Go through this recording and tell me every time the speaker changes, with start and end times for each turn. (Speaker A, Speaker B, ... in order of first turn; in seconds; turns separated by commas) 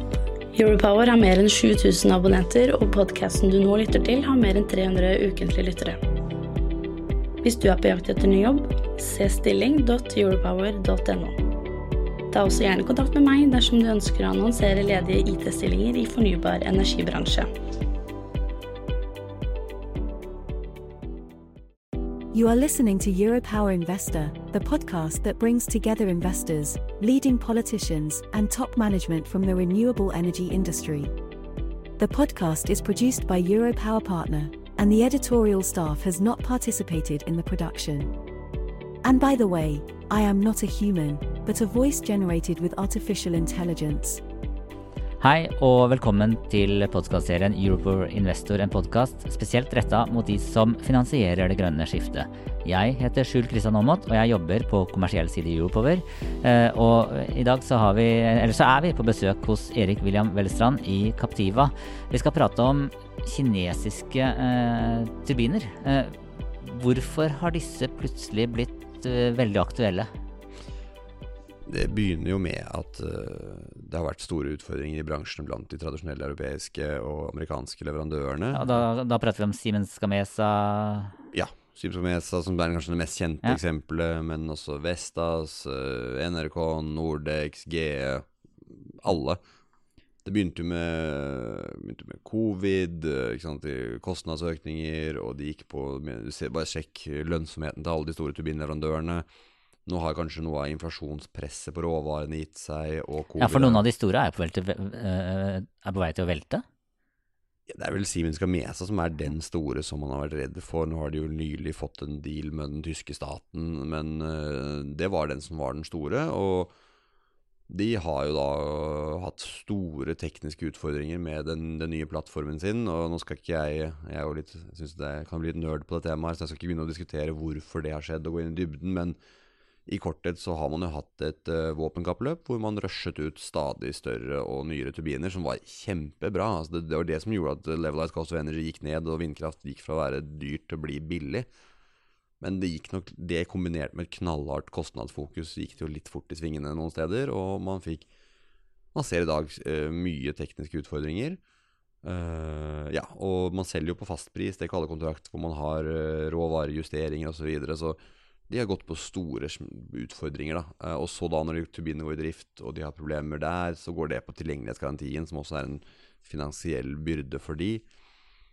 Speaker A: 0.5-6.0, Speaker A: 7.4-11.4, Speaker A: 12.3-17.5, Speaker B: 22.3-31.1, Speaker B: 32.0-38.1, Speaker B: 39.0-44.2, Speaker C: 45.2-70.1, Speaker D: 71.7-78.8, Speaker C: 78.5-81.2, Speaker D: 81.3-89.4, Speaker D: 90.2-99.3, Speaker D: 99.9-103.8, Speaker C: 103.4-106.7, Speaker D: 107.7-116.7, Speaker D: 117.7-129.2, Speaker D: 129.9-141.5, Speaker D: 142.4-148.1, Speaker D: 148.9-151.4, Speaker D: 152.0-167.8